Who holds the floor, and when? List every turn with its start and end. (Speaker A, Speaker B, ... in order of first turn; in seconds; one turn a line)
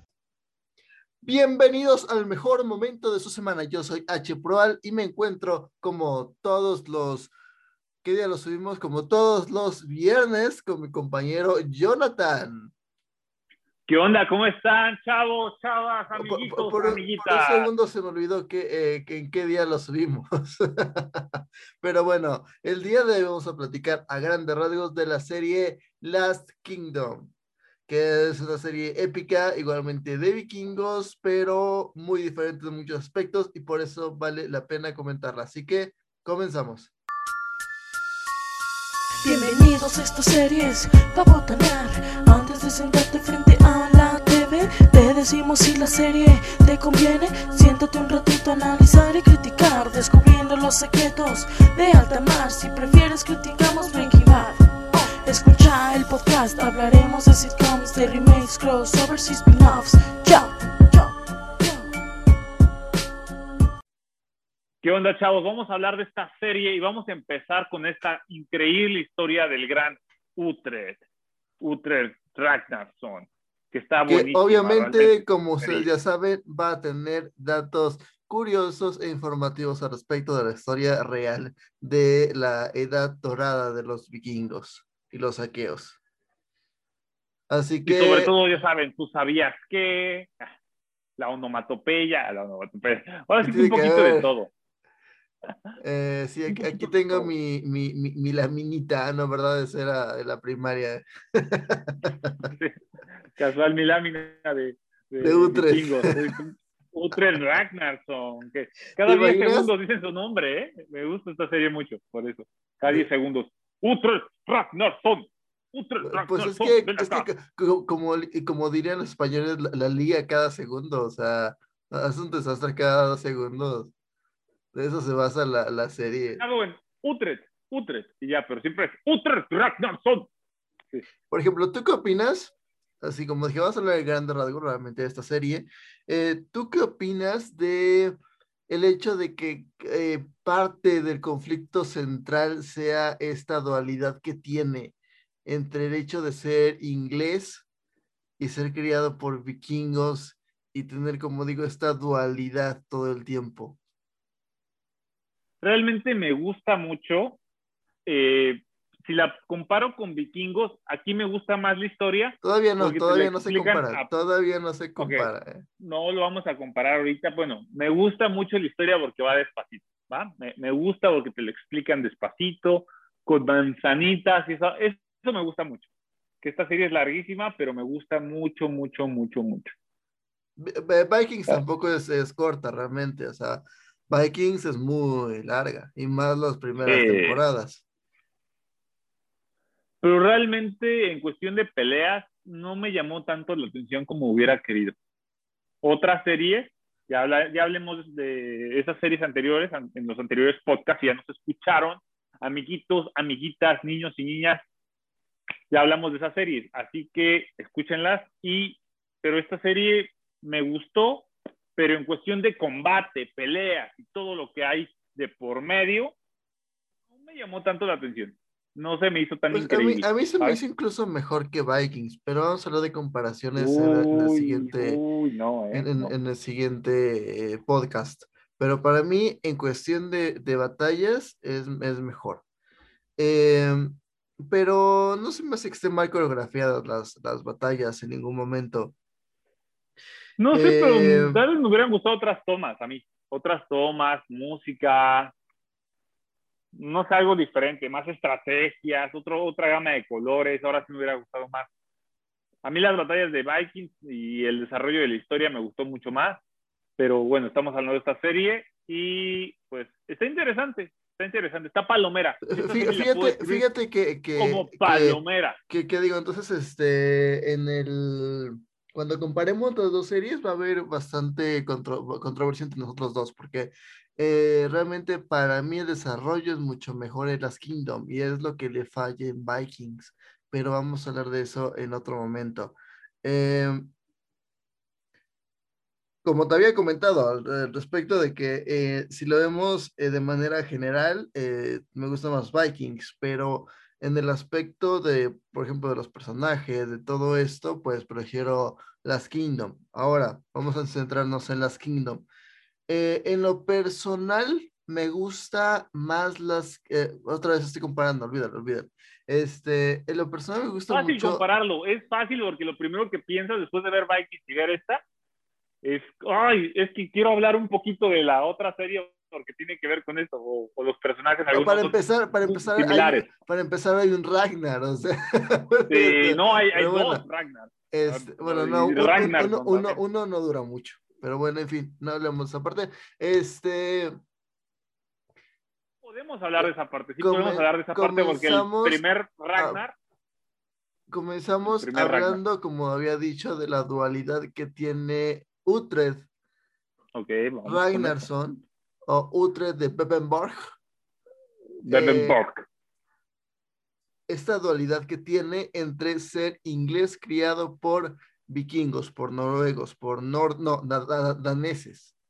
Speaker A: 1.2-7.3
Speaker A: 8.0-12.7
Speaker B: 13.9-17.7
Speaker A: 16.1-27.3
Speaker A: 27.9-36.9
Speaker C: 39.2-61.8
Speaker B: 64.8-71.0
Speaker B: 71.6-75.9
Speaker A: 74.1-86.0
Speaker A: 87.5-88.3
Speaker B: 87.8-90.4
Speaker B: 91.2-94.5
Speaker A: 93.4-94.3
Speaker A: 95.8-102.3
Speaker B: 96.5-97.3
Speaker B: 102.4-102.8
Speaker B: 103.3-117.3
Speaker A: 105.2-106.3
Speaker A: 109.0-109.7
Speaker A: 116.0-123.9
Speaker A: 124.7-126.4
Speaker B: 126.4-130.3
Speaker A: 131.3-138.2
Speaker A: 138.7-147.6
Speaker A: 148.4-153.8
Speaker B: 155.6-157.4
Speaker B: 158.1-164.1
Speaker A: 162.4-165.6
Speaker B: 165.0-175.9
Speaker B: 176.4-179.7
Speaker A: 180.6-187.8
Speaker B: 186.8-187.4
Speaker B: 190.0-194.9
Speaker B: 195.8-204.6
Speaker B: 205.7-216.1
Speaker B: 217.2-220.6
Speaker A: 219.5-225.0
Speaker B: 223.6-226.1
Speaker A: 225.7-232.4
Speaker A: 233.2-238.9
Speaker B: 240.4-245.3
Speaker A: 240.5-241.4
Speaker B: 246.7-251.7
Speaker B: 252.6-256.4
Speaker B: 257.0-263.6
Speaker A: 262.4-283.9
Speaker B: 264.4-265.6
Speaker A: 286.2-302.2
Speaker A: 302.9-311.4
Speaker B: 310.9-315.0
Speaker B: 315.8-323.2
Speaker A: 321.5-327.2
Speaker B: 325.9-330.0
Speaker A: 327.9-334.1
Speaker B: 336.0-339.9
Speaker A: 337.2-339.0
Speaker A: 339.5-339.8
Speaker A: 341.1-346.2
Speaker B: 341.6-342.4
Speaker B: 347.1-348.2
Speaker A: 347.6-350.7
Speaker A: 351.8-352.4
Speaker B: 351.8-352.6
Speaker A: 354.3-362.1